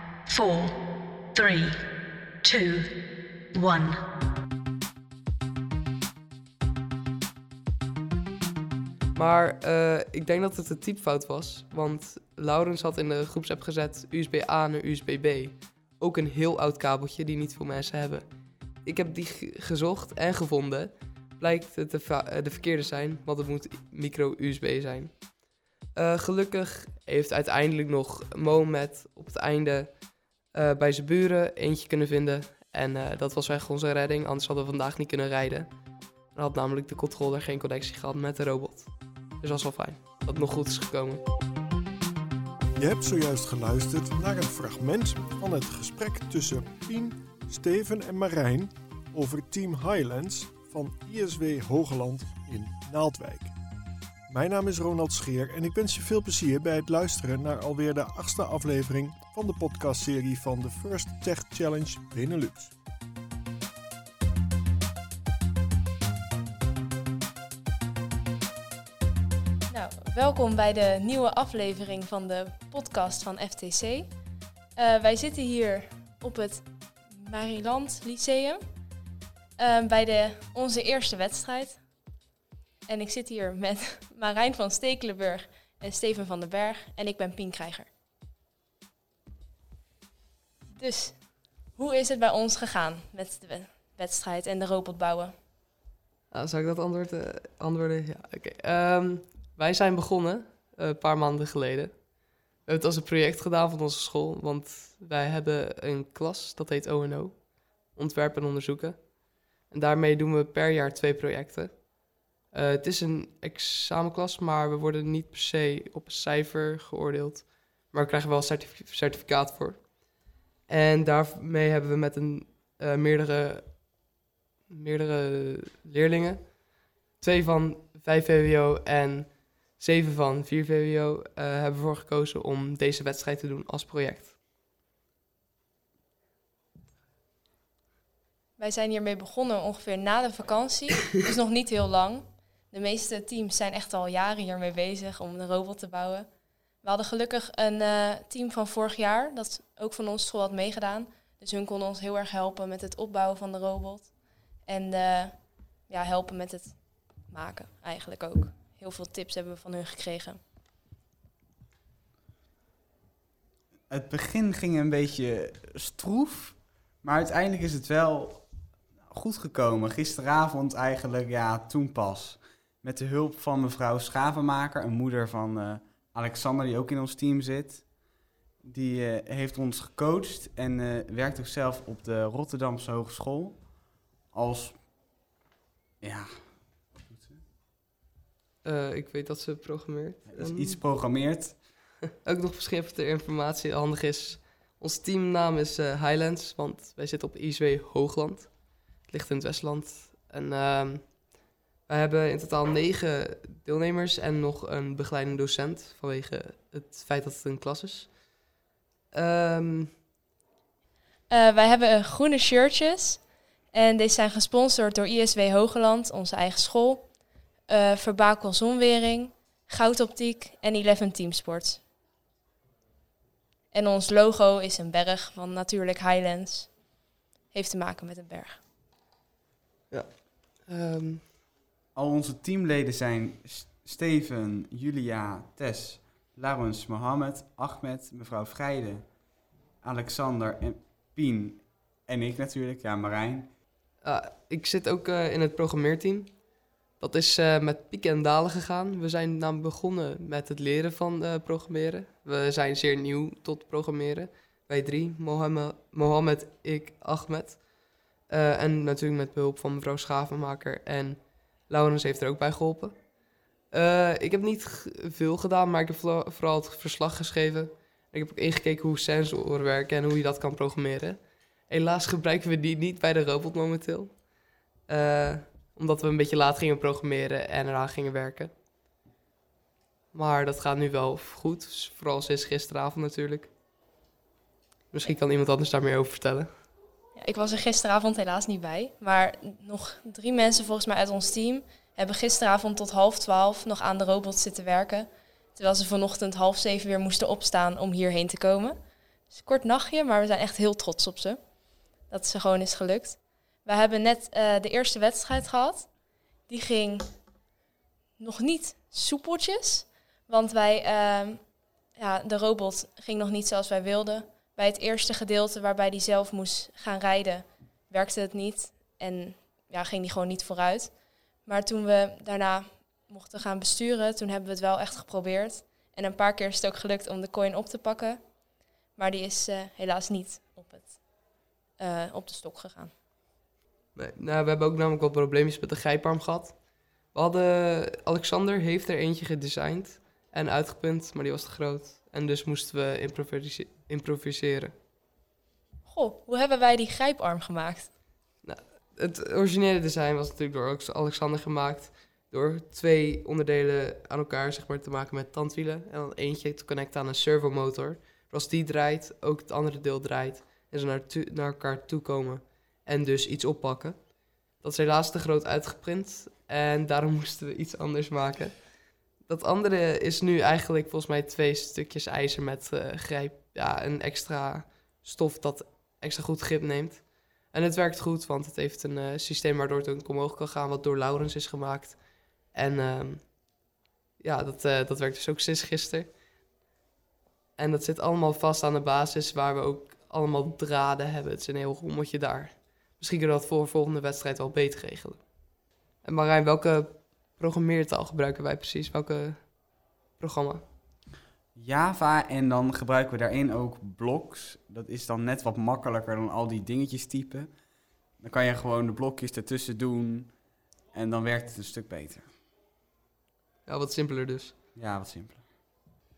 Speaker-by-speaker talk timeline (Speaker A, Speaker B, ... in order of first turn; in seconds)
Speaker A: 0.3-0.8, 1.4-1.8, 2.4-2.9, 3.5-4.0
Speaker B: 9.2-18.3, 18.9-25.2, 25.9-30.0, 30.5-35.7, 36.4-38.9, 39.4-41.2, 96.3-102.0, 102.7-109.1, 109.7-111.9, 112.5-119.9, 120.7-123.8, 124.7-126.6, 127.2-134.4, 188.6-190.8, 192.2-201.2, 201.9-208.1, 209.1-209.9, 229.9-231.2, 244.0-246.3, 247.0-257.6, 258.3-263.0, 263.7-274.2, 274.9-278.5, 280.1-283.5, 284.9-286.5, 334.0-336.6, 337.1-344.7, 348.4-364.0, 364.6-368.6, 369.3-382.0, 382.5-383.3, 384.2-386.1, 387.6-395.2, 396.0-399.4, 400.2-400.6, 413.7-414.6
Speaker C: 42.8-53.5, 54.3-62.7
Speaker D: 69.7-74.1, 74.8-78.6, 79.6-81.8, 82.9-87.9, 90.8-91.2, 91.8-95.3, 138.6-146.3, 146.8-154.1, 154.7-155.3, 155.9-160.4, 211.3-217.1, 217.7-221.8, 223.7-226.7, 227.5-228.6, 287.2-298.8, 299.3-301.4, 302.1-305.9, 306.5-307.1, 308.2-311.4, 311.9-320.9, 321.4-328.2, 329.0-331.0, 331.8-332.9, 345.9-347.9
Speaker E: 163.9-168.4, 169.1-177.9, 178.6-183.7, 184.3-184.8, 186.0-187.4, 190.3-191.6, 231.9-239.1, 239.8-243.5, 401.6-407.5, 408.2-410.3, 410.9-412.3, 414.8-415.4